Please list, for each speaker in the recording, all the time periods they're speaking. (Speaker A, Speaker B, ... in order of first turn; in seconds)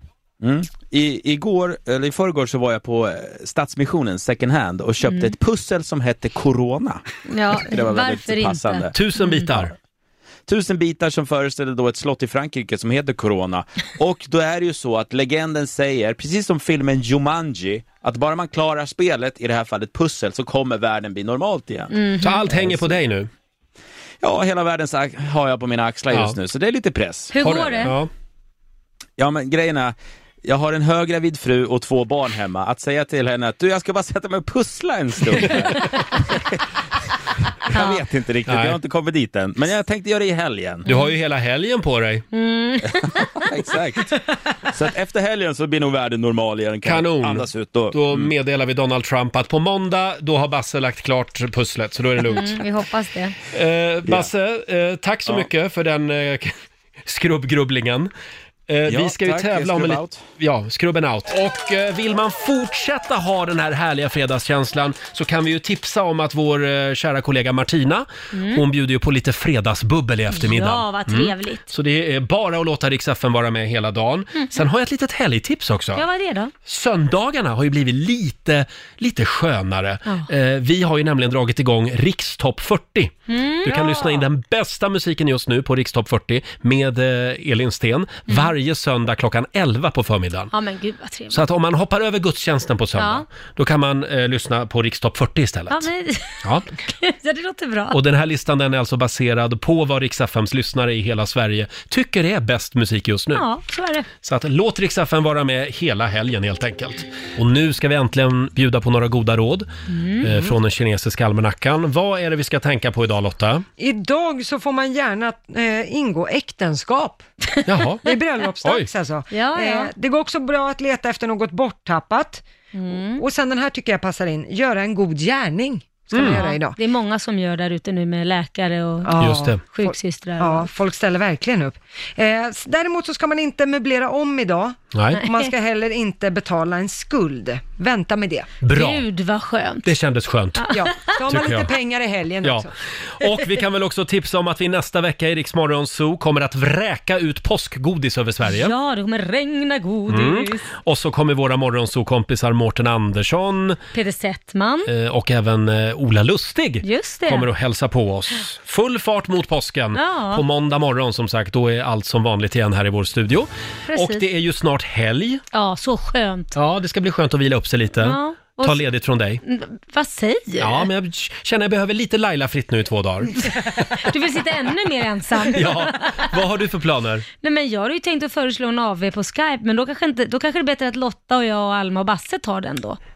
Speaker A: 0.4-8.9, 10.5-22.0, 22.5-22.9, 24.2-27.9, 29.2-36.6, 37.7-40.9, 42.9-48.3, 58.9-60.2
Speaker B: 5.0-5.3, 7.3-9.5, 21.9-22.4, 27.3-27.9, 37.7-38.0, 42.3-43.5, 52.2-53.4, 68.3-68.6, 70.3-71.7, 76.0-76.5, 83.3-84.0, 90.5-91.4, 93.0-93.2, 95.7-98.0, 103.3-104.1, 109.9-110.3, 119.3-119.9, 122.7-123.2, 126.1-130.7, 135.2-135.5, 138.7-139.8, 140.6-141.2, 148.4-150.7, 153.9-154.9, 156.8-157.5, 159.9-160.4, 163.9-164.2, 165.5-166.5, 168.0-168.8, 169.4-170.9, 173.8-176.3, 177.4-183.0
Speaker C: 8.9-9.7, 22.2-23.3, 26.1-26.4, 27.4-28.1, 38.5-38.8, 40.9-42.2, 46.9-52.6, 53.5-58.1, 58.7-76.0, 76.6-90.5, 91.3-95.9, 96.4-96.7, 97.9-103.4, 104.2-109.7, 110.2-113.6, 117.6-118.0, 118.6-118.9, 126.1-126.4, 129.2-129.6, 134.9-135.2, 138.6-139.0, 139.8-140.7, 141.2-141.7, 142.4-148.7, 150.1-153.8, 154.8-165.4, 166.5-169.4, 170.6-173.9, 175.5-177.2
Speaker D: 83.7-84.2, 113.8-117.2, 118.0-126.8, 129.0-138.5, 140.7-142.7